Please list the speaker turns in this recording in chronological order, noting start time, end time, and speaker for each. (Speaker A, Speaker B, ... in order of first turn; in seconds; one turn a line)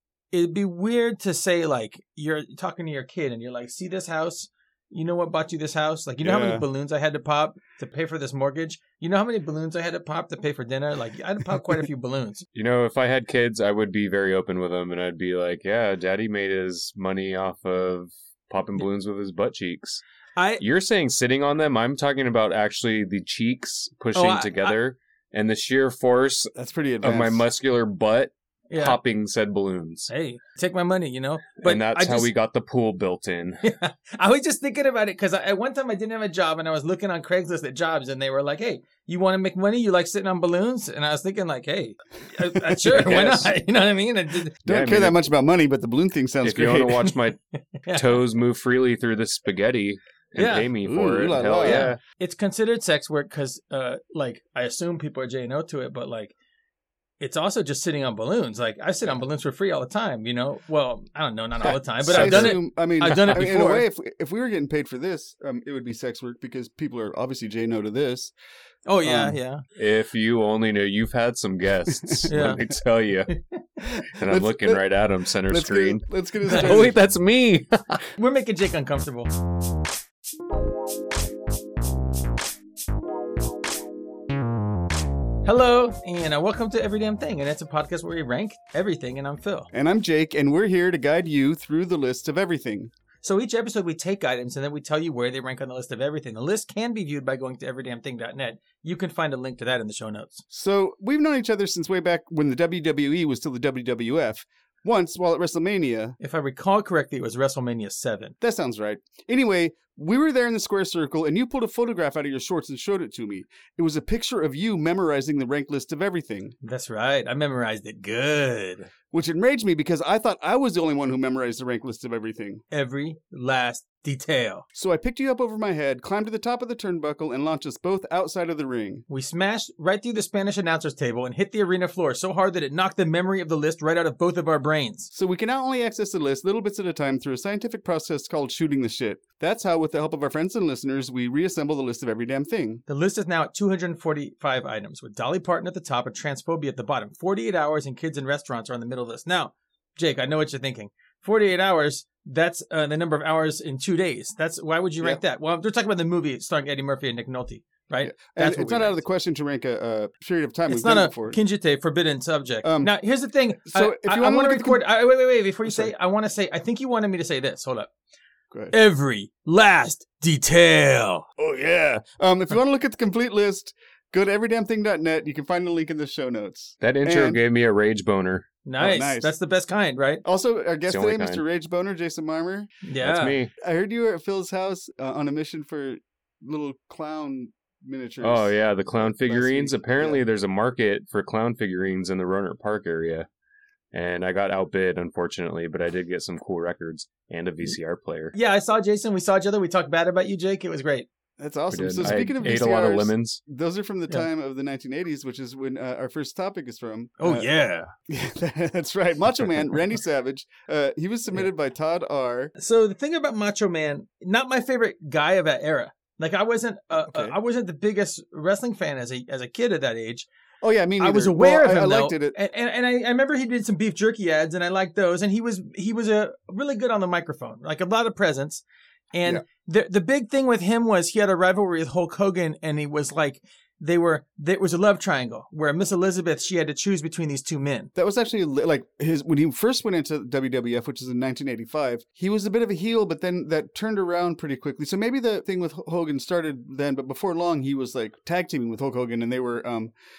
Speaker A: 0.3-12.4
Speaker B: 6.2-6.7
Speaker C: 12.6-20.0
Speaker A: 20.4-20.6
Speaker C: 20.6-30.1
Speaker A: 24.1-24.8
Speaker B: 26.6-27.5
Speaker A: 28.7-29.0
Speaker A: 30.1-32.3
Speaker C: 31.6-33.6
Speaker A: 33.6-44.5
Speaker B: 42.5-43.5
Speaker C: 42.9-43.5
Speaker C: 44.7-45.3
Speaker B: 44.7-47.1
Speaker C: 46.4-47.4
Speaker A: 47.8-48.2
Speaker C: 47.9-52.0
Speaker A: 50.4-50.7
Speaker B: 50.8-51.9
Speaker A: 51.6-56.3
Speaker A: 57.2-63.9
Speaker B: 61.7-68.3
Speaker C: 62.0-63.6
Speaker A: 68.9-69.6
Speaker B: 69.0-69.4
Speaker C: 69.8-73.3
Speaker B: 71.9-72.7
Speaker A: 72.3-72.6
Speaker B: 74.0-74.8
Speaker C: 74.1-78.1
Speaker B: 75.5-77.0
Speaker A: 76.5-76.9
Speaker A: 78.2-79.3
Speaker A: 85.5-89.7
Speaker B: 89.7-92.9
Speaker A: 93.2-100.4
Speaker B: 100.5-106.2
Speaker A: 106.2-108.3
Speaker B: 108.4-116.6
Speaker A: 116.6-118.9
Speaker B: 119.1-122.6
Speaker A: 122.7-124.7
Speaker B: 124.8-129.1
Speaker A: 129.1-135.1
Speaker B: 135.1-142.8
Speaker A: 142.9-159.0
Speaker B: 158.0-161.4
Speaker A: 160.7-167.9
Speaker B: 162.6-162.9
Speaker B: 163.7-164.8
Speaker B: 165.7-165.9
Speaker A: 168.7-171.3
Speaker B: 171.4-177.4
Speaker C: 176.8-178.5
Speaker A: 178.7-180.2
Speaker B: 178.8-179.3
Speaker B: 180.2-182.7
Speaker C: 180.9-181.4
Speaker A: 182.8-183.4
Speaker C: 183.0-183.5
Speaker B: 183.6-190.2
Speaker C: 188.2-193.3
Speaker C: 193.9-198.3
Speaker A: 198.3-201.1
Speaker B: 201.4-207.5
Speaker C: 201.7-203.4
Speaker A: 207.2-207.9
Speaker B: 208.1-212.5
Speaker A: 212.6-220.3
Speaker B: 217.0-217.4
Speaker B: 220.6-222.4
Speaker A: 221.0-228.6
Speaker A: 229.1-237.9
Speaker B: 237.9-249.9